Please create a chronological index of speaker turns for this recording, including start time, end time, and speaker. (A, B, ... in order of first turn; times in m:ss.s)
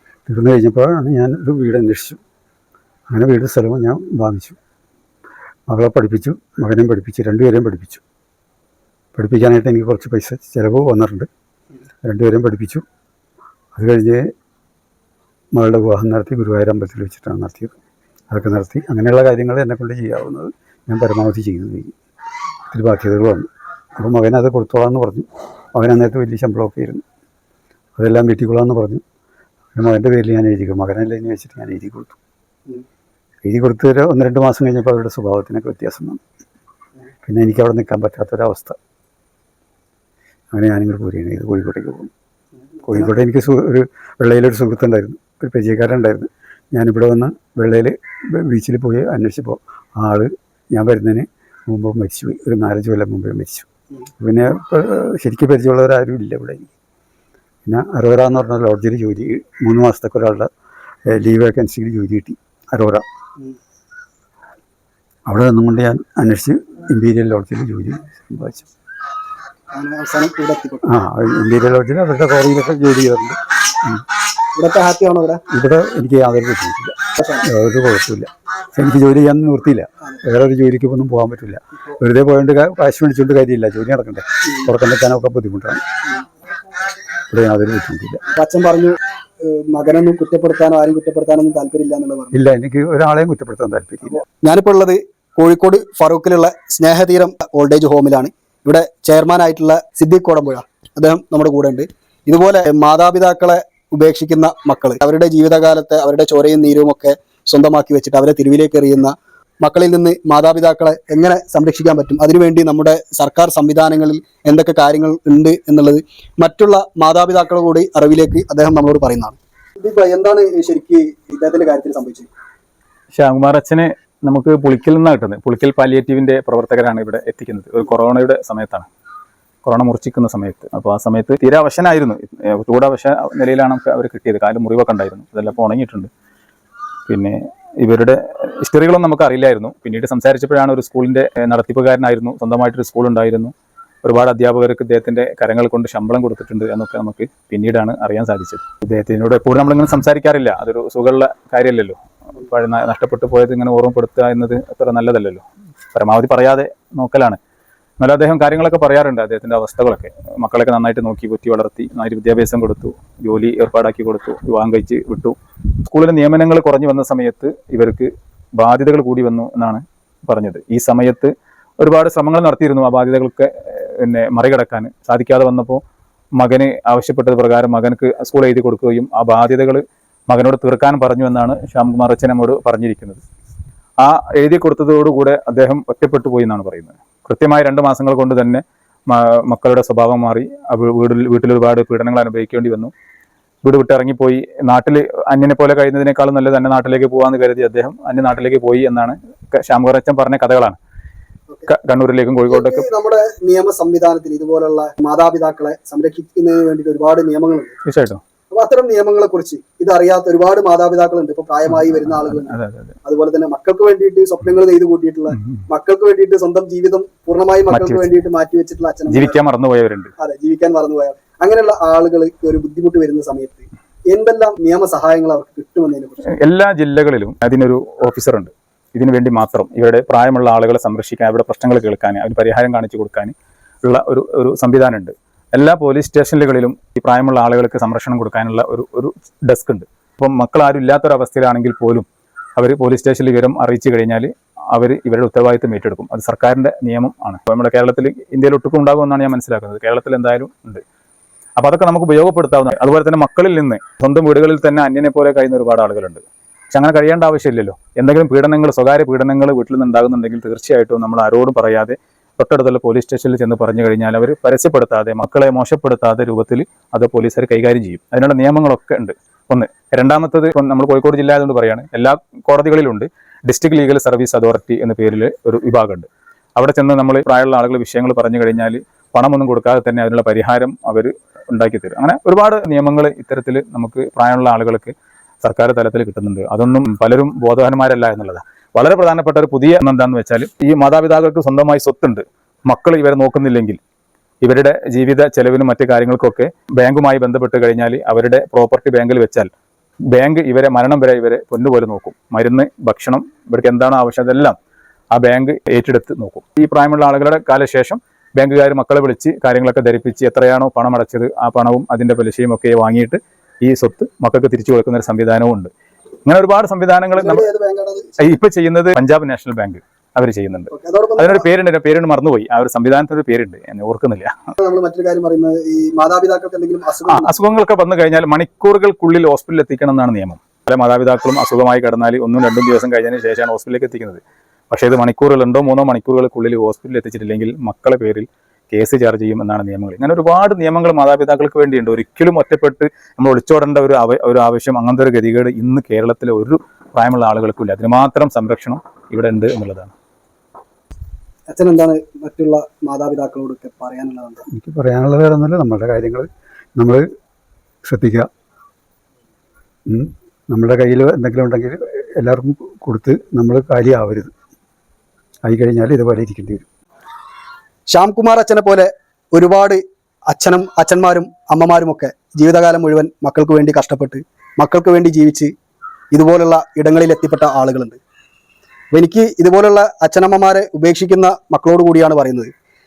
0:00.3-0:02.2 A
0:03.1-0:04.6 A
0:05.7-0:08.0 A
0:09.2-0:11.3 A
0:12.0-0:12.8 A
0:13.8-0:14.3 A
0:15.5-0:17.8 A
0:18.3-0:21.9 A
0:22.7-0:27.0 A
0:28.0-0:29.0 A
0:29.7-0:32.2 A
0:33.4-0:36.2 A
0:37.2-0:38.8 A
0:40.5-0:42.1 A
0:42.8-0:53.7 A
0:54.2-0:56.7 A
0:57.6-1:00.5 A
1:01.1-1:03.0 A
1:05.3-1:08.7 A
1:09.7-1:11.0 B
1:10.8-1:14.0 A
1:14.6-1:15.4 B
1:15.5-1:25.8 A
1:17.2-1:17.4 B
1:27.3-1:28.2 A
1:28.3-1:32.4 B
1:32.3-1:34.2 A
1:34.0-2:02.3 B
2:03.1-2:08.9 C
2:09.6-2:16.1 C
2:17.1-2:23.5 C
2:24.0-2:37.4 C
2:38.0-2:55.8 C
2:56.4-3:03.2 C
3:04.0-3:12.9 C
3:13.6-3:20.8 C
3:21.7-3:22.9 C
3:22.5-3:27.8 B
3:27.8-3:28.2 C
3:28.5-3:39.4 B
3:31.7-3:33.0 C
3:35.4-3:35.6 C
3:37.7-3:38.2 C
3:39.1-3:40.1 C
3:40.2-3:46.3 B
3:46.3-4:02.0 C
4:02.6-4:10.8 C
4:11.6-4:53.8 C
4:54.4-4:59.5 C
5:00.1-5:04.5 C
5:05.1-5:15.7 C
5:16.2-5:17.4 C
5:17.1-5:18.2 B
5:18.2-5:24.5 C
5:20.7-5:21.5 B
5:24.6-5:27.4 B
5:27.1-5:49.9 C
5:51.5-5:54.5 B
5:54.5-5:57.0 A
5:57.8-5:58.3 A
5:59.9-6:04.3 A
6:05.4-6:06.6 A
6:07.9-6:15.5 B
6:16.1-6:18.0 B
6:18.9-6:22.5 B